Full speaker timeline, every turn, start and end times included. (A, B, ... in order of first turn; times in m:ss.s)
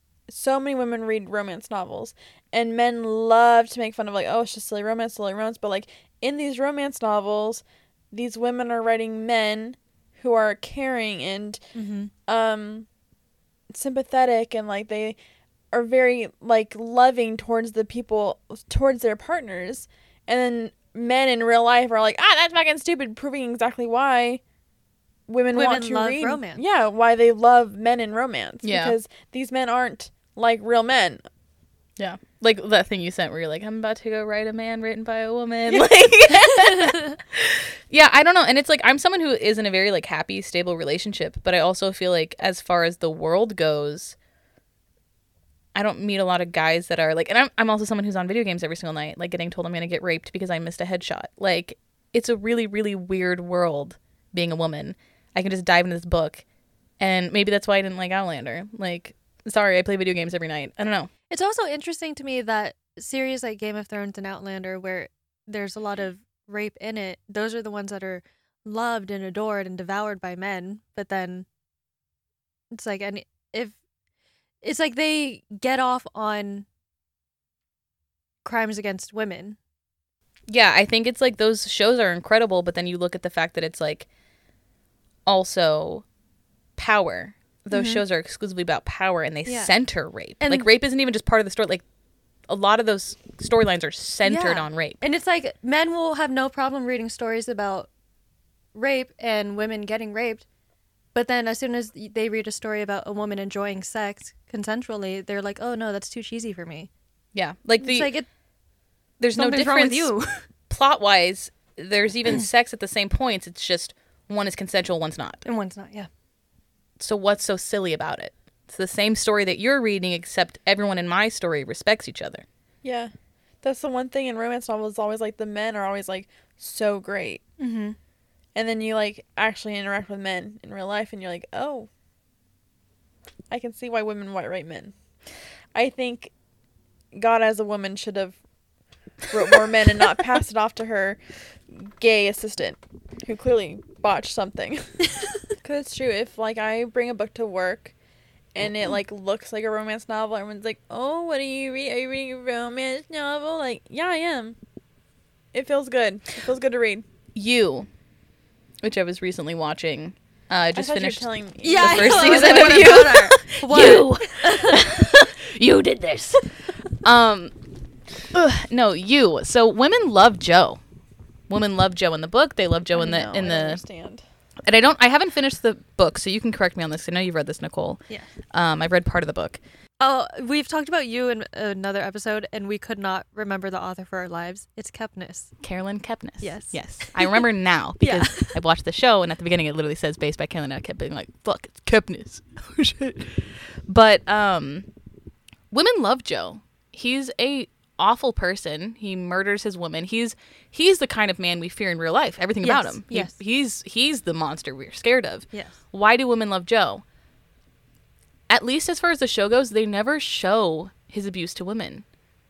0:00.3-0:11.7 A
0:11.7-0:12.1 B
0:12.3-0:12.9 A
0:13.7-0:15.2 A
0:15.7-0:24.4 A
0:25.3-0:31.2 A
0:25.5-0:26.6 B
0:28.6-0:29.0 C
0:32.0-0:44.2 C
0:36.5-0:37.2 B
0:45.7-0:56.4 C
0:57.0-1:01.1 C
1:01.3-1:11.4 B
1:12.7-1:13.8 B
1:14.6-1:16.7 B
1:18.4-1:19.6 B
1:20.5-1:24.1 C
1:25.2-1:26.0 C
1:26.8-1:31.8 C
1:27.7-1:28.0 B
1:29.4-1:29.7 B
1:30.4-1:30.7 B
1:32.5-1:35.0 C
1:34.2-1:37.9 B
1:38.7-1:40.4 B
1:41.1-1:46.9 B
1:47.3-1:48.1 C
1:47.8-1:48.3 B
1:49.2-1:55.4 C
1:49.4-1:50.4 B
1:55.4-1:56.1 B
1:57.0-2:02.4 C
2:02.8-2:03.1 A
2:03.6-2:07.4 A
2:07.6-2:08.0 B
2:08.5-2:11.9 A
2:13.5-2:15.0 A
2:15.7-2:16.3 A
2:17.1-2:18.4 A
2:19.3-2:27.9 A
2:28.5-2:34.6 A
2:35.5-2:37.0 A
2:37.3-2:37.9 C
2:38.8-2:47.5 C
2:40.7-2:43.2 A
2:41.6-2:44.9 B
2:48.2-2:50.8 C
2:51.5-2:53.8 C
2:52.9-2:54.2 A
2:54.7-2:59.6 C
3:00.0-3:05.5 B
3:05.6-3:14.9 C
3:06.4-3:07.4 B
3:08.0-3:08.6 B
3:15.7-3:27.0 C
3:22.6-3:23.4 B
3:28.5-3:32.0 C